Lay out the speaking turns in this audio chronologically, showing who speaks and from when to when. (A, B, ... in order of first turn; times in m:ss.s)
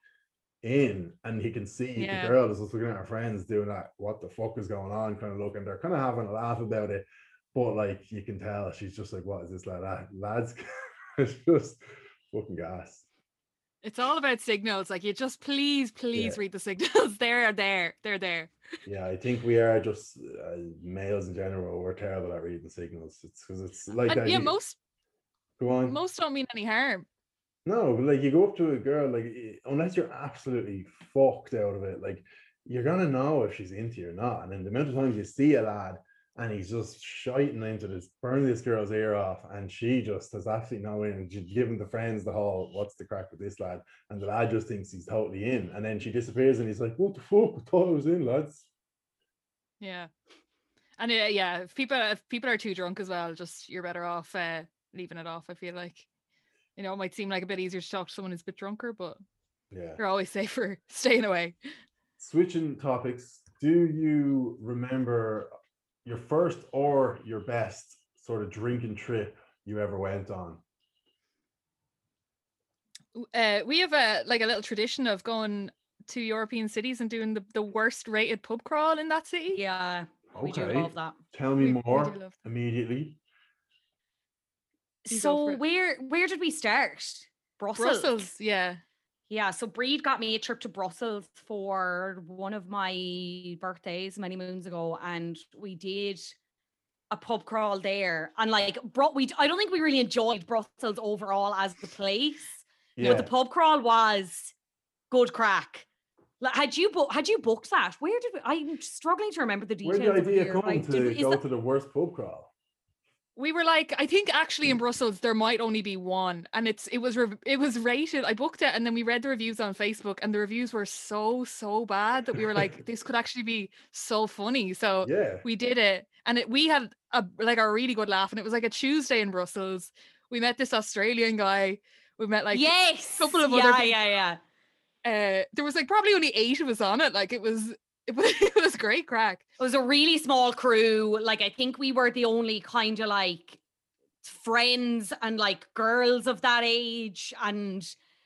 0:00.6-0:10.6 A
0:02.0-0:02.4 B
0:11.2-0:13.0 A
0:13.8-0:18.5 B
0:16.1-0:16.4 A
0:18.9-0:24.6 A
0:24.1-0:24.8 B
0:25.6-0:26.0 A
0:25.9-0:27.1 B
0:27.6-0:48.7 A
0:49.8-0:50.1 B
0:51.0-0:56.1 B
0:56.8-0:59.2 B
0:59.7-1:00.0 A
1:00.0-1:01.6 B
1:02.2-1:05.5 A
1:06.0-1:10.6 A
1:13.1-1:19.6 B
1:19.5-1:21.2 C
1:20.3-1:23.2 A
1:21.6-1:22.3 B
1:25.1-1:28.3 C
1:25.1-1:25.6 B
1:27.8-1:28.8 B
1:29.3-1:36.4 C
1:37.1-1:44.5 C
1:43.0-1:43.3 A
1:45.1-1:45.9 C
1:46.4-1:51.4 C
1:49.8-1:52.5 A
1:53.4-2:14.0 B
2:05.0-2:05.4 A
2:12.5-2:14.4 C
2:15.0-2:19.4 B
2:19.6-2:23.6 C
2:24.2-2:28.0 C